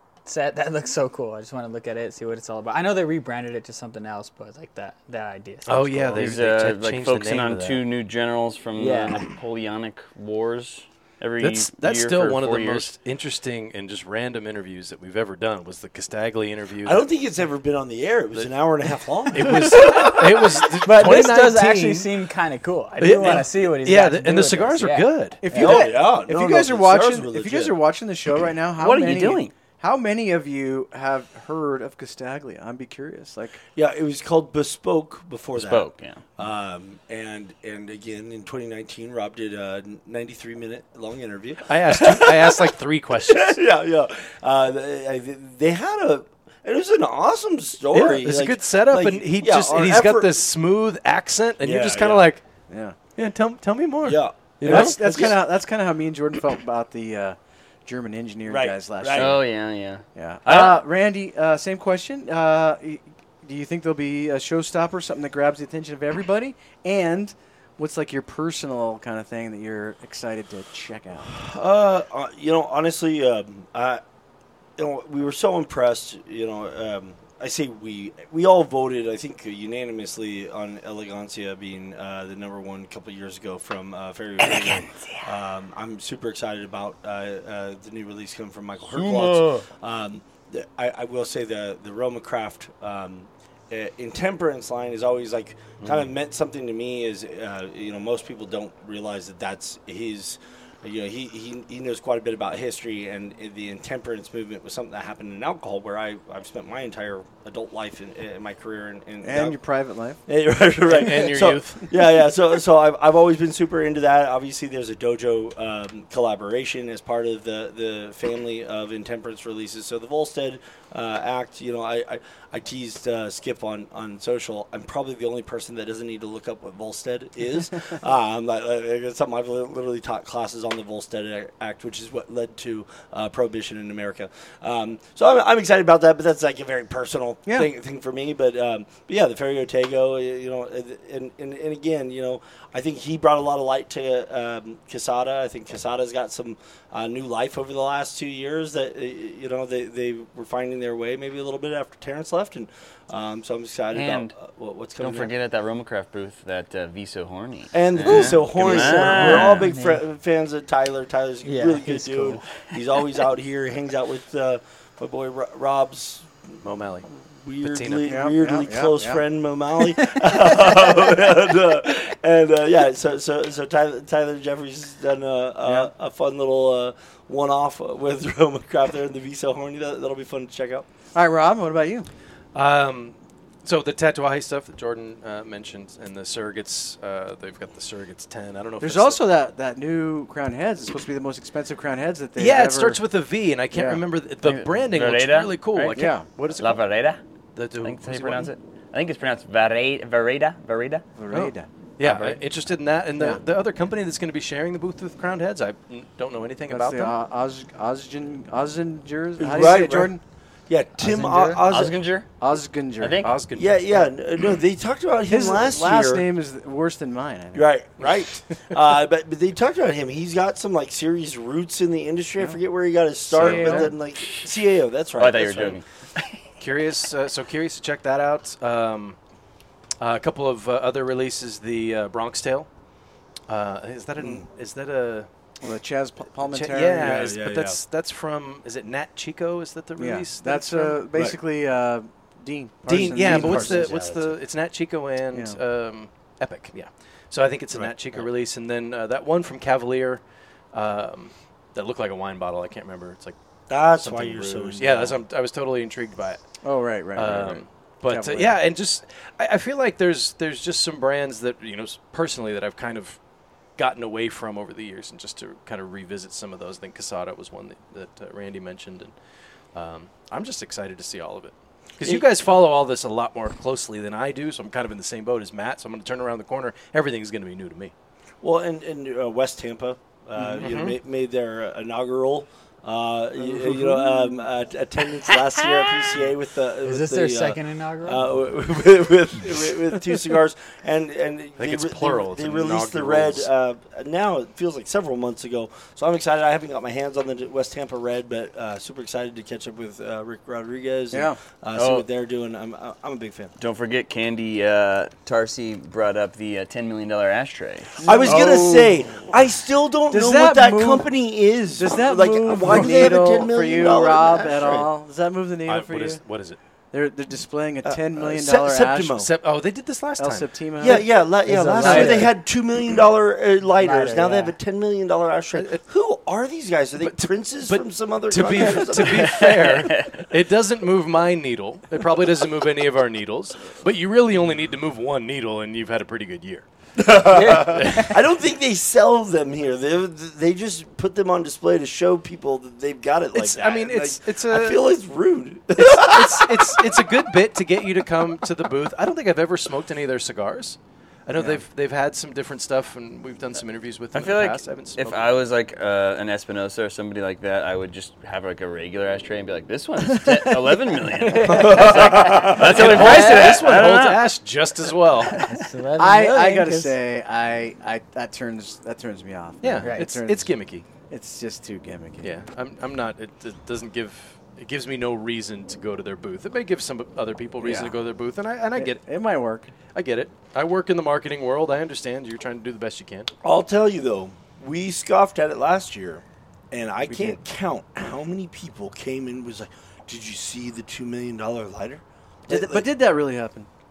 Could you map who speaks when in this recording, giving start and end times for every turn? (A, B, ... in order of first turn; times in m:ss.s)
0:00.2-0:06.4 A
0:05.6-0:07.8 B
0:06.1-0:12.9 C
0:08.8-0:09.3 A
0:11.4-0:17.0 B
0:16.8-0:20.1 D
0:19.3-0:22.1 B
0:20.0-0:20.2 A
0:20.8-0:25.9 A
0:23.0-0:25.4 B
0:25.4-0:33.6 E
0:25.5-0:27.7 D
0:28.8-0:29.5 C
0:33.7-0:42.7 D
0:35.6-0:36.2 C
0:41.6-0:43.6 B
0:43.2-0:50.3 D
0:47.9-0:52.4 B
0:51.6-0:52.2 D
0:52.7-0:53.0 E
0:53.2-0:55.3 B
0:54.0-0:55.4 D
0:54.6-0:59.4 E
0:58.5-0:59.4 D
0:59.1-1:00.7 C
1:00.1-1:11.3 E
1:11.2-1:14.0 D
1:14.8-1:49.6 D
1:28.9-1:29.6 C
1:49.2-1:50.2 E
1:50.3-2:35.3 D
1:50.9-1:51.9 B
2:17.4-2:17.7 E
2:33.9-2:34.3 C
2:35.0-2:39.7 C
2:37.7-2:46.3 D
2:39.1-2:40.0 A
2:41.4-2:42.7 A
2:46.6-2:47.1 B
2:47.3-3:00.9 D
2:47.6-2:48.2 B
2:48.0-2:49.2 E
2:55.6-2:55.9 E
3:01.1-3:02.1 E
3:02.5-3:09.2 B
3:08.8-3:13.0 E
3:12.4-3:16.2 B
3:13.7-3:14.0 E
3:14.4-3:17.2 C
3:15.9-3:16.8 E
3:17.5-3:18.5 B
3:17.8-3:21.0 C
3:21.2-3:21.7 E
3:21.3-3:27.2 B
3:22.0-3:22.4 C
3:26.7-3:30.2 E
3:29.4-3:30.2 D
3:30.7-3:32.0 D
3:31.1-3:31.6 A
3:31.6-3:32.3 C
3:32.4-3:33.3 E
3:33.0-3:33.3 C
3:33.2-3:33.8 B
3:33.5-3:36.2 D
3:35.3-3:37.7 E
3:37.5-3:45.8 D
3:43.3-3:43.9 E
3:43.3-3:43.8 B
3:45.2-3:45.8 C
3:46.6-3:49.2 B
3:50.0-3:52.7 B
3:53.5-3:55.3 B
3:55.6-3:57.4 E
3:56.5-4:01.0 B
3:57.0-3:57.8 D
4:00.0-4:04.3 E
4:02.9-4:10.2 B
4:02.9-4:04.3 D
4:05.3-4:05.6 E
4:07.7-4:08.2 D
4:10.7-4:13.4 B
4:13.7-4:15.2 D
4:13.9-4:16.4 B
4:16.6-4:18.6 E
4:17.2-4:23.2 B
4:23.8-4:29.1 B
4:29.7-4:37.9 B
4:38.4-5:03.5 D
4:40.6-4:41.0 B
4:46.8-4:48.4 A
4:51.6-4:53.5 B
5:01.1-5:01.4 E
5:01.8-5:02.1 C
5:03.6-5:08.0 C
5:08.0-5:09.0 E
5:08.0-5:14.9 D
5:10.1-5:11.1 E
5:11.7-5:16.2 E
5:15.6-5:16.6 B
5:16.9-5:19.3 E
5:17.8-5:19.3 D
5:19.2-5:20.5 B
5:20.2-5:22.3 E
5:20.8-5:29.5 D
5:20.8-5:22.4 A
5:23.8-5:24.6 A
5:25.5-5:25.8 B
5:27.0-5:36.6 B
5:29.2-5:30.2 C
5:37.0-5:46.7 D
5:37.3-5:38.1 A
5:37.4-5:38.1 B
5:43.3-5:44.9 B
5:45.8-5:55.3 B
5:54.1-6:04.3 C
6:01.5-6:05.5 B
6:01.6-6:02.5 D
6:02.8-6:03.5 A
6:05.3-6:07.0 A
6:06.0-6:10.5 E
6:09.6-6:10.8 B
6:09.8-6:10.1 A
6:11.1-6:12.3 E
6:12.2-6:19.0 B
6:17.6-6:18.0 E
6:18.8-6:19.7 E
6:19.9-6:23.3 B
6:23.4-6:32.8 D
6:27.0-6:27.4 E
6:32.5-6:33.7 E